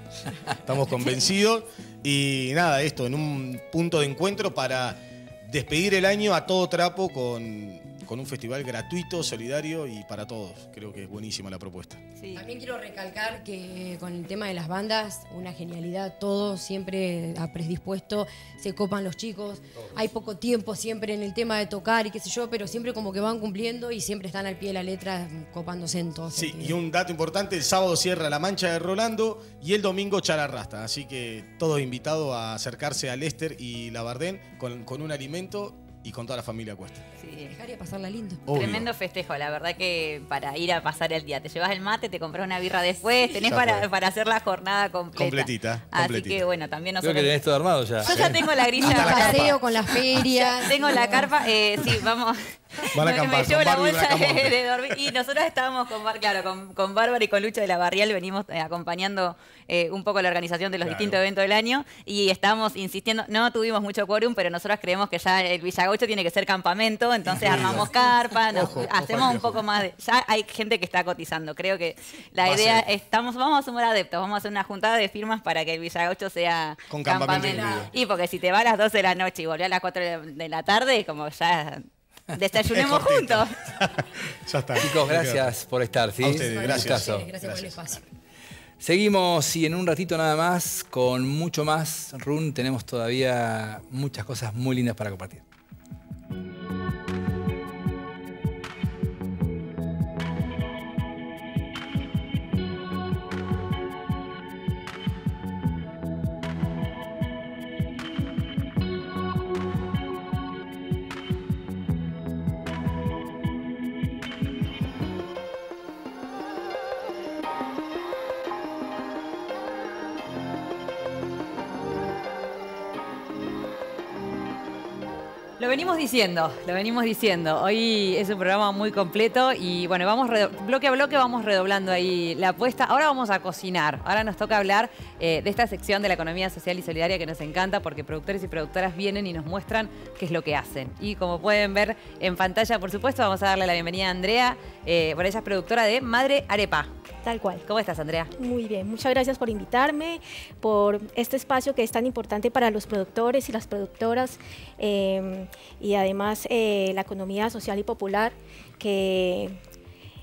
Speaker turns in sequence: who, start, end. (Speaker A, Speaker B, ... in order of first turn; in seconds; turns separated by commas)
Speaker A: 0.6-12.0, Speaker B: 12.2-12.5, Speaker C: 12.3-26.8, Speaker A: 26.3-37.0, Speaker B: 37.2-37.6, Speaker C: 37.5-38.5, Speaker A: 38.5-38.9, Speaker B: 38.5-47.4, Speaker A: 43.4-43.9, Speaker A: 45.1-46.4, Speaker D: 47.0-48.3, Speaker B: 48.0-83.6, Speaker A: 48.0-49.6, Speaker C: 48.8-51.4, Speaker A: 52.9-54.6, Speaker A: 60.8-61.2, Speaker A: 67.3-68.0, Speaker A: 68.5-69.6, Speaker A: 72.4-72.8, Speaker A: 76.9-77.9, Speaker C: 77.4-77.8, Speaker A: 82.7-83.9, Speaker A: 84.5-85.6, Speaker D: 84.8-87.3, Speaker A: 86.2-88.0, Speaker C: 86.3-88.0, Speaker D: 88.8-95.4, Speaker E: 125.6-146.9, Speaker F: 147.2-147.6, Speaker E: 147.7-148.3, Speaker F: 148.4-159.6